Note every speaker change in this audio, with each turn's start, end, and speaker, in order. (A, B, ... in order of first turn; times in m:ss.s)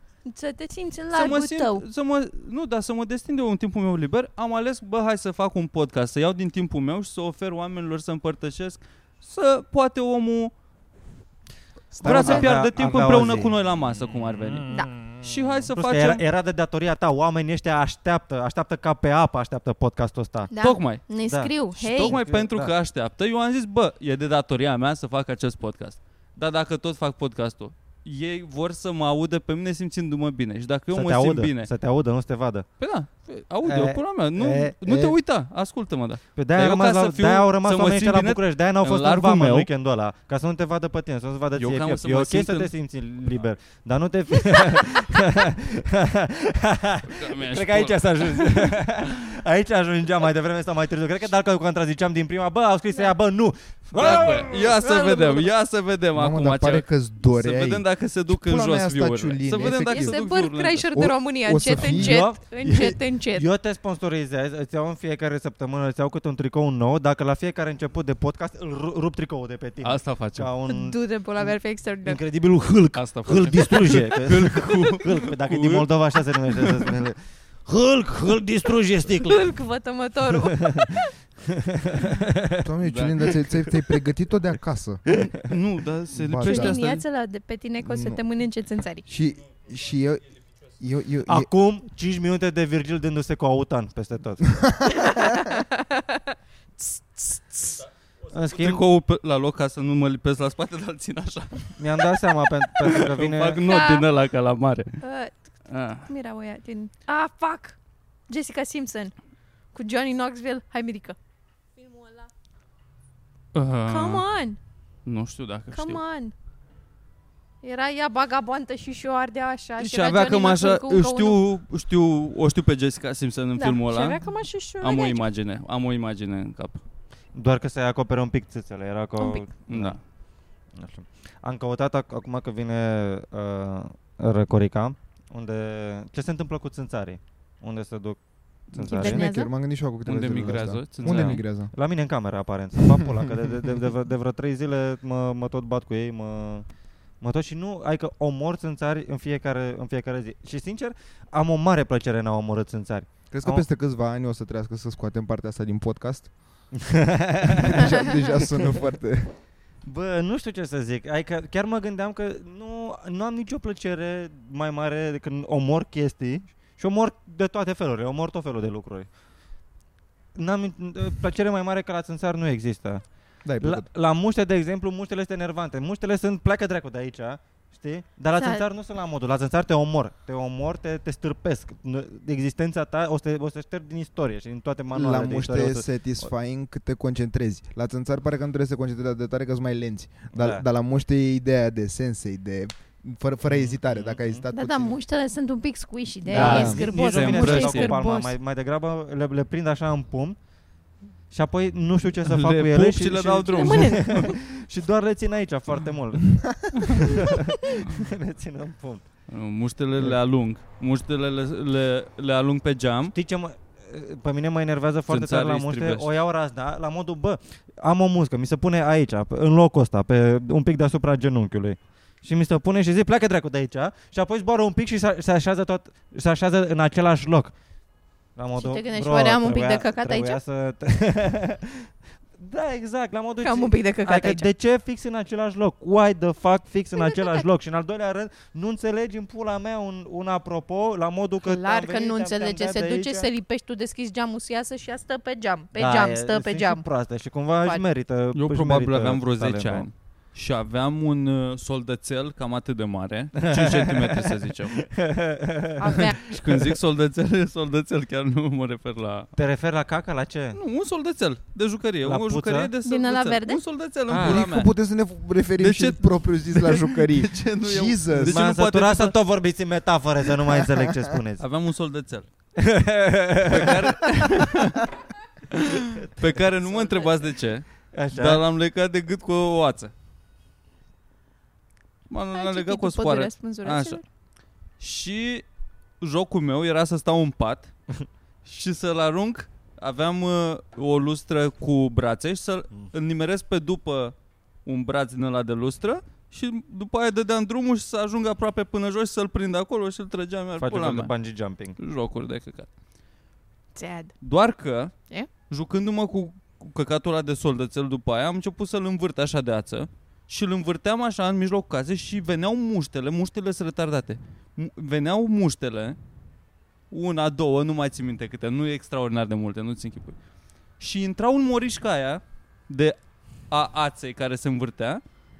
0:00.2-0:01.8 A
0:01.1-0:10.5 B
0:12.0-0:12.5 C
0:12.0-0:13.7 D
0:12.0-0:16.2 B
0:14.8-0:15.2 C
0:15.7-0:20.5 D
0:20.5-0:22.2 A
0:20.6-0:21.1 B
0:21.1-0:22.7 D
0:21.8-0:31.7 B
0:30.9-0:32.7 D
0:32.8-0:39.7 B
0:33.6-0:35.2 D
0:36.4-0:55.5 D
0:41.6-0:42.7 B
0:47.1-0:48.8 B
0:54.0-1:01.0 B
0:54.4-0:54.9 A
0:56.1-1:00.2 C
0:59.6-1:03.5 A
1:00.9-1:02.3 C
1:01.8-1:19.5 D
1:09.8-1:10.5 B
1:10.7-1:12.2 A
1:12.9-1:15.9 B
1:16.6-1:16.9 B
1:19.2-1:21.0 A
1:20.5-1:20.8 D
1:21.9-1:22.6 D
1:22.6-1:25.0 C
1:22.8-1:23.4 B
1:25.1-1:27.0 B
1:26.1-1:26.8 C
1:26.4-1:29.1 A
1:27.8-1:28.2 C
1:29.1-1:31.5 C
1:31.3-1:34.7 D
1:34.6-1:35.1 C
1:34.9-1:36.2 A
1:36.8-1:37.8 A
1:38.3-1:38.8 D
1:38.5-1:45.0 B
1:41.8-1:43.6 D
1:43.6-1:44.1 A
1:45.0-1:49.2 A
1:45.7-1:46.1 B
1:49.7-1:51.2 A
1:51.8-1:52.3 A
1:53.5-1:54.2 B
1:53.9-1:54.6 A
1:55.0-1:56.0 B
1:55.7-1:56.3 A
1:57.6-2:01.4 A
1:59.8-2:06.8 B
2:03.6-2:05.2 A
2:07.3-2:10.0 D
2:09.2-2:09.5 A
2:09.7-2:10.0 B
2:10.7-2:19.3 D
2:18.8-2:19.5 A
2:19.0-2:21.7 C
2:20.0-2:21.4 B
2:21.0-2:26.7 D
2:27.2-2:33.6 D
2:33.3-2:36.3 C
2:36.8-2:38.2 D
2:37.5-2:39.3 C
2:39.8-2:49.1 D
2:50.4-3:05.8 D
2:53.4-2:53.9 C
2:58.4-2:58.6 A
3:04.9-3:15.0 C
3:10.3-3:10.6 D
3:13.5-3:14.4 D
3:14.5-3:18.4 A
3:16.3-3:20.4 D
3:16.3-3:18.0 B
3:16.3-3:16.8 C
3:21.3-3:29.2 D
3:22.2-3:24.3 B
3:23.5-3:24.3 A
3:29.3-3:33.2 B
3:33.1-3:47.6 D
3:35.1-3:36.1 B
3:48.4-4:03.3 D
3:48.5-3:50.4 A
3:53.4-3:54.5 A
3:57.0-3:57.4 A
4:01.4-4:06.9 A
4:05.8-4:09.9 D
4:08.3-4:14.9 B
4:13.5-4:16.7 D
4:15.8-4:16.2 A
4:16.2-4:19.3 B
4:19.4-4:20.6 D
4:20.5-4:24.7 B
4:22.0-4:22.7 D
4:22.8-4:23.6 A
4:24.1-4:24.4 D
4:24.1-4:28.4 C
4:25.6-4:29.2 B
4:28.3-4:31.4 D
4:31.4-4:32.3 B
4:32.6-4:34.2 D
4:33.5-4:34.9 B
4:35.5-4:39.9 B
4:37.8-4:38.4 D
4:42.1-4:44.0 B
4:42.3-4:44.0 A
4:44.8-4:45.5 B
4:46.0-4:47.7 B
4:48.4-5:01.1 B
5:00.6-5:01.8 D
5:01.8-5:02.7 B
5:03.8-5:04.1 A
5:04.2-5:05.0 B
5:05.5-5:16.0 B
5:16.9-5:20.2 B
5:20.8-5:23.0 B
5:23.5-5:25.0 B